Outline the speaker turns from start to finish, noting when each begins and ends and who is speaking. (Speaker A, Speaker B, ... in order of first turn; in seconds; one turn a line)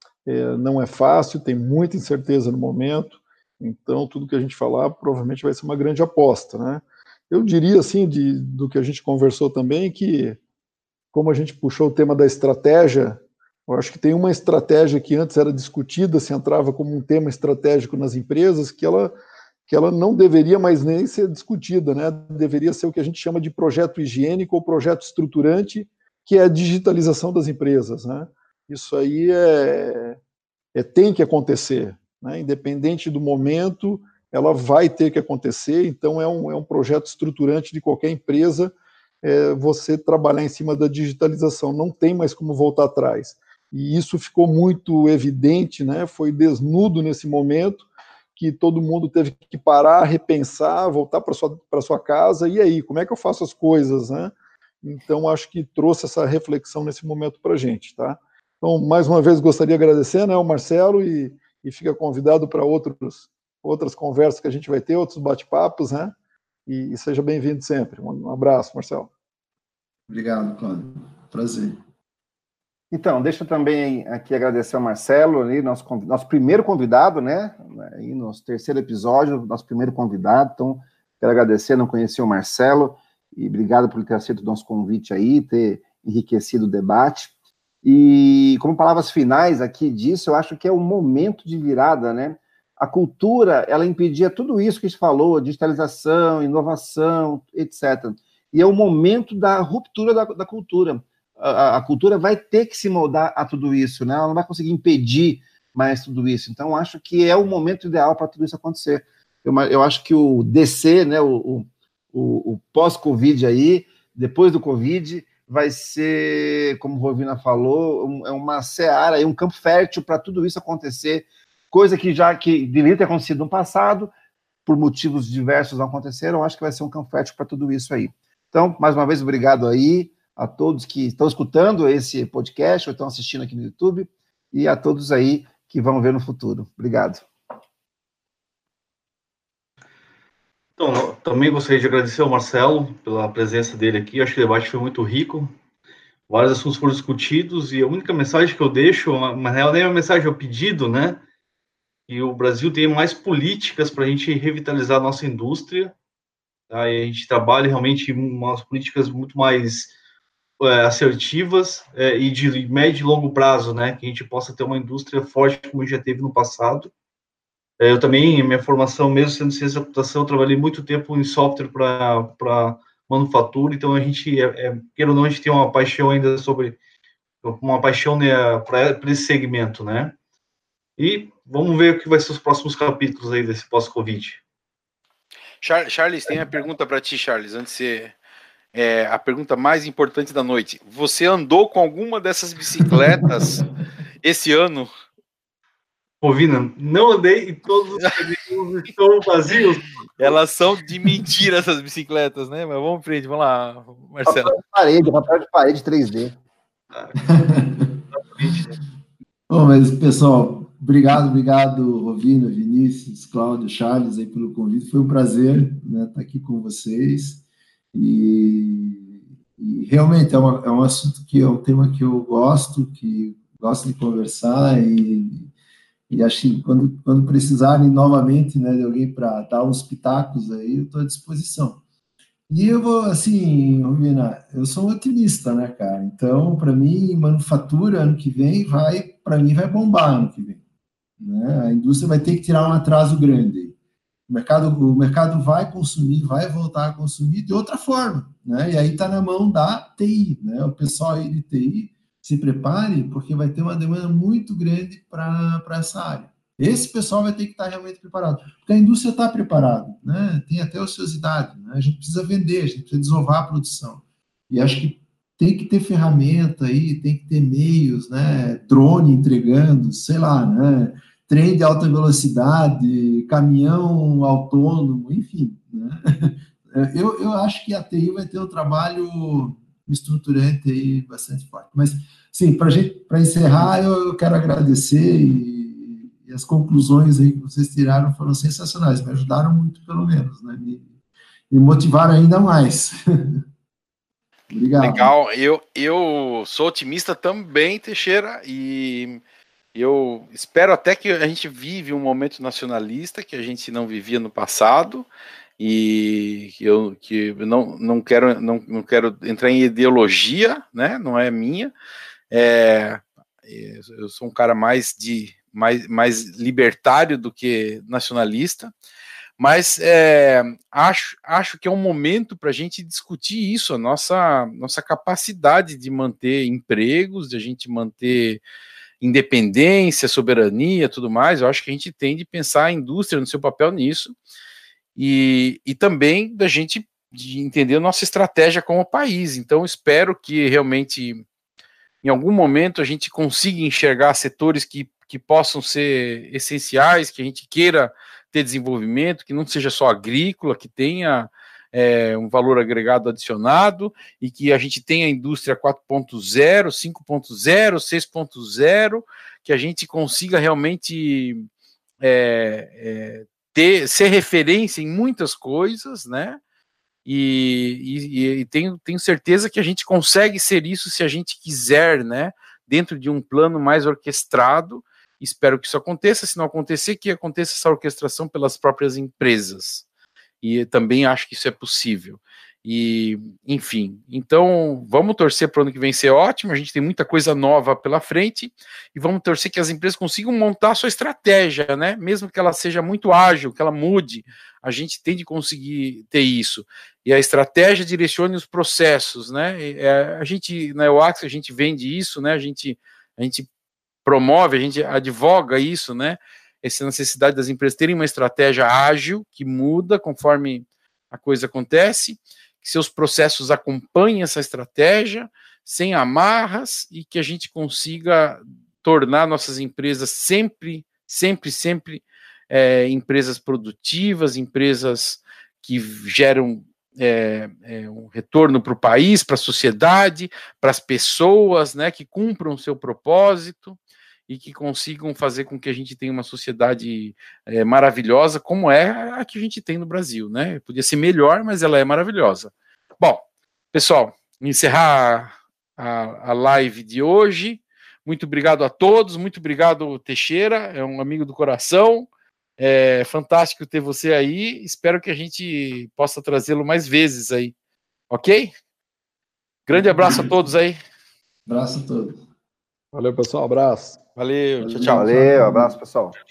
Speaker A: 0.2-10.4
Speaker A: 11.1-19.1
Speaker A: 19.7-30.2
Speaker A: 30.7-66.1
Speaker A: 66.7-69.1
Speaker B: 70.1-71.8
Speaker C: 72.9-87.3
Speaker C: 87.8-124.1
Speaker C: 124.7-137.2
Speaker D: 140.8-145.5
Speaker D: 146.3-151.2
Speaker D: 152.1-155.9
Speaker D: 156.7-159.9
Speaker D: 160.6-166.9
Speaker D: 167.8-176.8
Speaker D: 177.4-180.1
Speaker D: 181.0-184.4
Speaker E: 185.6-188.1
Speaker E: 188.7-193.6
Speaker E: 194.2-194.9
Speaker D: 196.2-200.3
Speaker E: 200.2-204.6
Speaker C: 204.2-206.3
Speaker B: 207.3-208.0
Speaker D: 208.1-208.7
Speaker B: 209.5-217.4
Speaker B: 217.9-225.5
Speaker B: 226.1-231.8
Speaker B: 232.5-240.6
Speaker B: 241.2-243.8
Speaker B: 244.3-290.9
Speaker B: 291.5-293.4
Speaker B: 294.5-295.1
Speaker E: 294.8-299.2
Speaker E: 299.7-305.1
Speaker E: 305.6-311.7
Speaker E: 312.3-318.7
Speaker E: 319.4-328.4
Speaker E: 329.0-334.1
Speaker E: 334.9-341.2
Speaker E: 342.0-361.4
Speaker E: 362.0-366.4
Speaker E: 367.1-379.8
Speaker E: 380.4-403.5
Speaker E: 404.0-457.5
Speaker E: 458.1-458.5
Speaker E: 459.7-460.8
Speaker B: 459.7-460.4
Speaker B: 461.4-462.2
Speaker A: 462.9-464.0
Speaker E: 464.1-465.1
Speaker B: 464.6-465.8
Speaker C: 464.7-466.1